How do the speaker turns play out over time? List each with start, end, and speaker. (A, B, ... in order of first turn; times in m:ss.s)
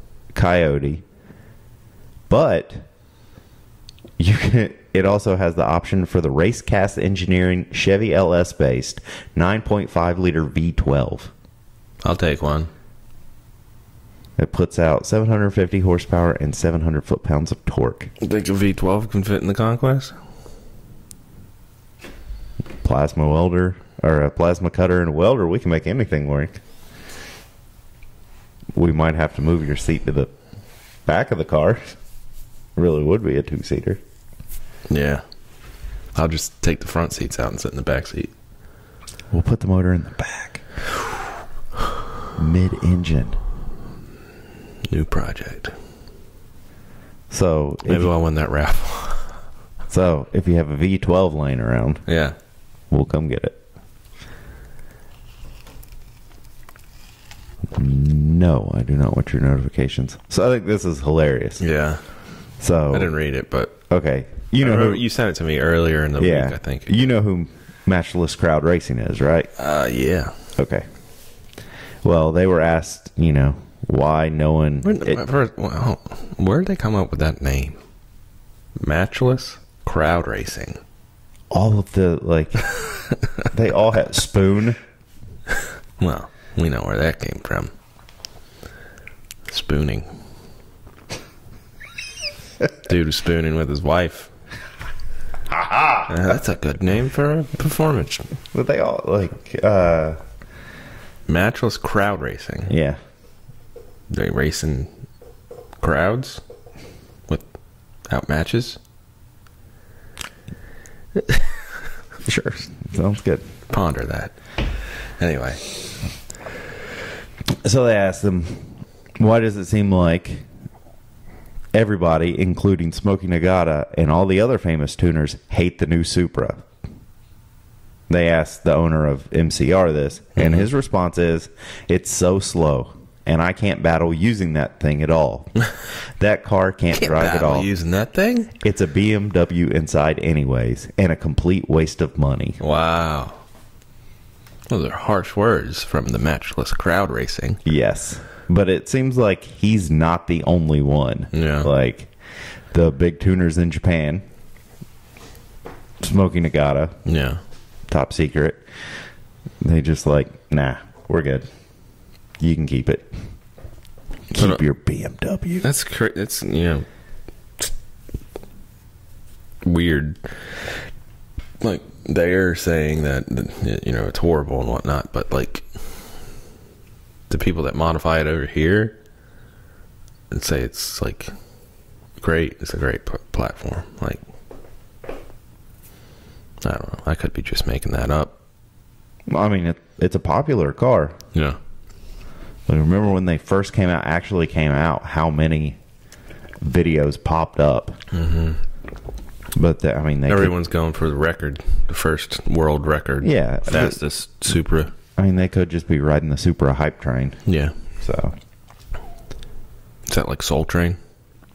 0:00.3-0:01.0 A
0:02.3-0:02.9 A
0:04.2-0:11.3 A
0:12.0-0:12.7 B
0:14.4-0:18.1 A
0:18.2-0:20.2 B
0:22.8-0:26.6 A
0:28.8-0:30.3 A
0:31.0-0:32.0 A
0:32.8-0:34.0 A
0:34.9-0:38.3 B
0:39.3-0:40.7 A
0:42.4-0:43.4 A
0:44.9-0:45.7 B
0:47.3-0:48.1 A
0:47.8-0:49.4 B
0:49.9-0:52.0 A
0:52.1-0:52.4 B
0:52.9-0:53.6 A
0:57.7-1:01.6 A
1:01.6-1:03.7 B
1:02.6-1:03.1 A
1:03.9-1:05.0 A
1:04.6-1:06.9 B
1:06.2-1:09.5 A
1:09.6-1:10.4 B
1:10.6-1:10.9 A
1:12.0-1:15.2 A
1:14.8-1:17.8 B
1:18.8-1:20.8 B
1:21.5-1:22.8 A
1:23.4-1:24.8 A
1:26.0-1:27.7 B
1:29.5-1:30.1 B
1:32.8-1:34.3 B
1:35.5-1:36.4 A
1:36.1-1:38.4 B
1:38.5-1:40.2 A
1:41.3-1:42.7 B
1:42.7-1:43.0 A
1:44.1-1:44.9 B
1:45.8-1:46.4 B
1:47.3-1:48.8 B
1:52.2-1:53.4 A
1:53.7-1:55.8 B
1:57.5-2:00.5 A
2:01.7-2:06.7 A
2:08.1-2:17.7 A
2:10.4-2:10.7 B
2:16.9-2:18.5 B
2:18.6-2:22.6 A
2:22.6-2:23.4 B
2:24.7-2:27.6 B
2:27.6-2:34.2 A
2:31.3-2:31.7 B
2:36.0-2:37.0 A
2:37.0-2:37.4 B
2:37.9-2:43.3 A
2:44.3-2:45.6 A
2:44.4-2:44.6 B
2:45.6-2:46.9 B
2:49.6-2:50.8 B
2:51.6-2:56.1 B
2:57.3-2:59.0 B
3:00.3-3:01.3 B
3:02.2-3:04.2 B
3:06.6-3:08.3 B
3:09.3-3:11.2 A
3:12.7-3:15.8 A
3:16.6-3:18.0 A
3:18.1-3:18.6 B
3:19.5-3:20.5 A
3:20.3-3:24.9 B
3:23.2-3:24.0 A
3:25.2-3:28.4 A
3:27.5-3:27.8 B
3:30.1-3:31.0 B